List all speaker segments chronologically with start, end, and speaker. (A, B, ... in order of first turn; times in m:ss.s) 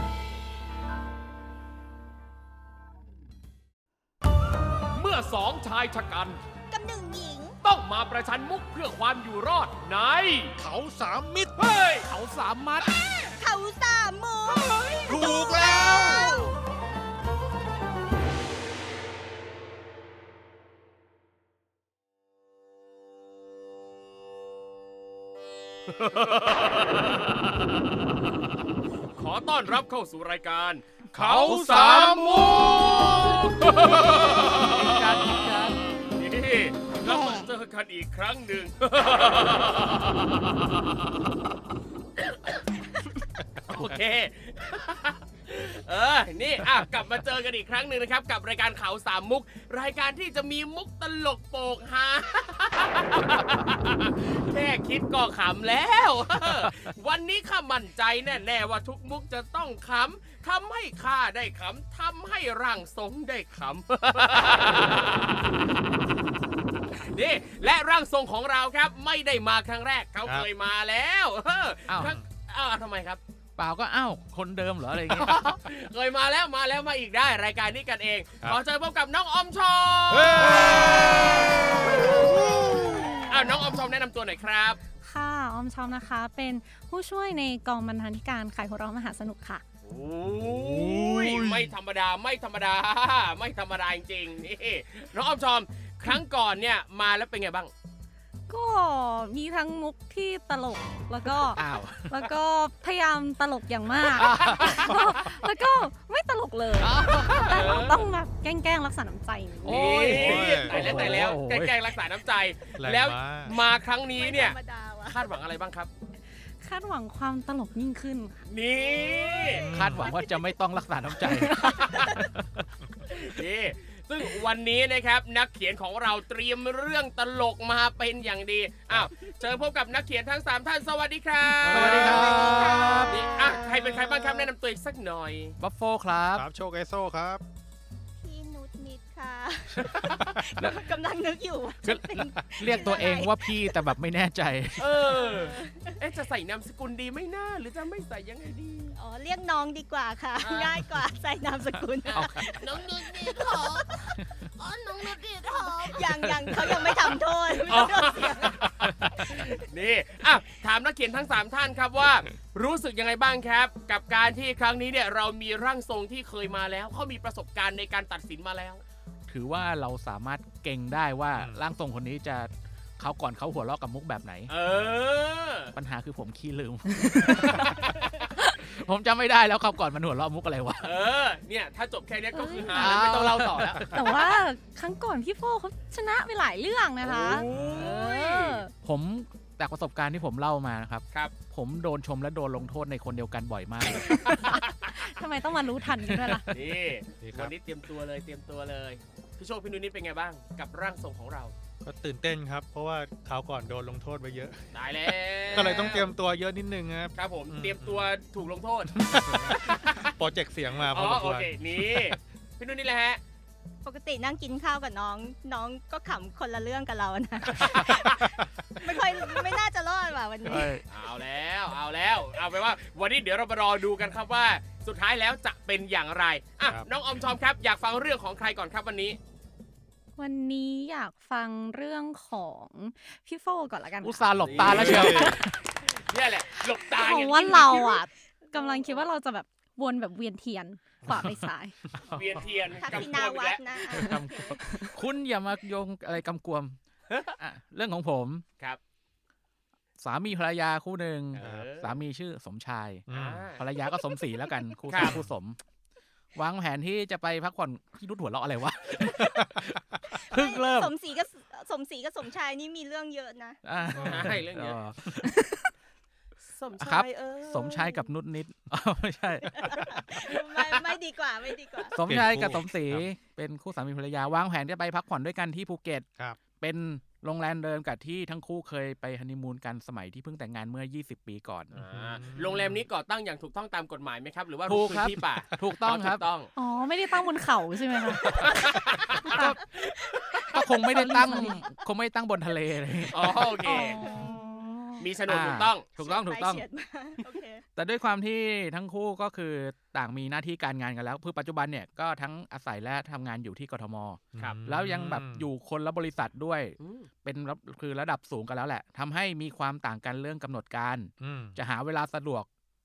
0:04.9-0:06.4 A
0:06.7-0:07.6 B
0:07.6-0:10.6 A
0:10.6-0:11.5 C
0:11.6-0:12.1 A
0:12.0-0:12.9 D
0:12.8-0:16.6 B
0:15.0-0:16.4 C
0:25.9-0:27.5 A
0:29.1-0:35.5 A
0:31.1-0:33.4 C
0:31.4-0:33.4 D
0:34.1-0:35.8 D
0:36.1-0:41.0 A
0:37.0-0:37.5 B
0:42.2-0:42.6 A
0:43.7-1:05.7 A
1:06.9-1:13.2 A
1:11.9-1:12.1 D
1:13.6-1:15.3 D
1:15.1-1:22.2 A
1:20.1-1:23.6 C
1:23.3-1:24.8 A
1:25.0-1:29.6 E
1:29.8-1:37.7 A
1:30.3-1:31.7 C
1:38.5-1:49.8 E
1:41.5-1:42.1 D
1:44.2-1:44.8 D
1:44.4-1:44.7 A
1:46.8-1:47.5 D
1:47.0-1:48.1 A
1:49.6-1:55.9 A
1:49.6-1:51.8 D
1:50.0-1:51.2 C
1:52.8-1:53.5 C
1:54.1-1:55.3 B
1:56.6-1:58.4 E
1:58.4-1:59.6 A
1:58.7-2:00.5 B
1:59.5-2:00.1 C
1:59.7-2:02.7 D
2:01.4-2:02.1 E
2:01.6-2:02.1 A
2:03.1-2:15.6 A
2:11.6-2:14.4 C
2:11.7-2:13.2 D
2:11.8-2:14.0 B
2:15.6-2:16.4 D
2:16.3-2:17.4 C
2:18.2-2:23.9 B
2:19.8-2:20.8 D
2:21.8-2:24.9 D
2:24.8-2:29.0 A
2:24.9-2:26.0 B
2:28.9-2:34.2 B
2:30.4-2:30.8 A
2:32.0-2:36.2 A
2:32.1-2:32.4 D
2:35.5-2:38.7 B
2:36.0-2:36.9 D
2:37.6-2:48.8 A
2:49.3-2:54.5 D
2:51.3-2:51.6 C
2:54.5-2:55.7 A
2:54.7-2:55.0 C
2:55.7-2:57.7 D
2:57.0-2:57.6 E
2:58.6-3:00.9 D
3:00.8-3:04.1 A
3:02.3-3:02.9 E
3:02.7-3:03.9 D
3:03.9-3:08.7 E
3:07.0-3:08.6 A
3:07.4-3:08.0 C
3:08.8-3:14.2 D
3:14.0-3:16.6 E
3:16.0-3:16.4 D
3:16.5-3:21.5 A
3:17.2-3:17.5 C
3:21.8-3:24.6 C
3:24.7-3:26.1 A
3:25.4-3:28.1 C
3:27.1-3:30.1 A
3:28.9-3:32.2 C
3:30.7-3:33.2 A
3:33.8-3:40.8 B
3:37.6-3:38.5 C
3:40.4-3:40.8 D
3:40.9-3:49.2 A
3:50.2-3:54.3 E
3:54.0-3:55.5 D
3:54.3-3:55.3 A
3:54.5-3:55.4 C
3:55.0-3:55.6 E
3:55.8-3:58.0 A
3:56.6-4:01.8 E
3:58.5-3:59.1 B
4:01.2-4:01.5 D
4:01.9-4:02.2 C
4:02.1-4:03.8 A
4:02.8-4:04.6 B
4:03.9-4:06.8 D
4:04.0-4:04.8 E
4:07.4-4:08.4 D
4:10.0-4:15.6 D
4:11.3-4:12.0 A
4:11.4-4:11.7 C
4:13.1-4:13.5 C
4:13.1-4:13.6 A
4:14.9-4:15.2 A
4:15.0-4:15.3 C
4:16.3-4:20.9 D
4:20.1-4:23.6 B
4:23.6-4:25.5 D
4:23.9-4:24.4 C
4:23.9-4:24.8 A
4:26.4-4:28.1 A
4:26.8-4:29.6 D
4:29.5-4:32.0 B
4:30.6-4:31.0 A
4:31.9-4:36.1 D
4:32.0-4:33.1 C
4:36.6-4:41.7 D
4:41.7-4:46.5 A
4:41.8-4:42.8 C
4:44.6-4:46.2 D
4:46.6-4:49.6 E
4:48.4-4:50.6 A
4:50.5-4:53.5 D
4:50.9-4:51.6 E
4:53.1-4:54.1 A
4:53.6-4:55.1 E
4:53.7-4:54.4 B
4:55.0-4:55.9 A
4:55.3-4:56.6 D
4:56.0-4:57.6 B
4:57.8-5:12.5 D
5:04.3-5:05.5 C
5:04.4-5:04.6 A
5:06.8-5:07.1 A
5:11.2-5:11.6 C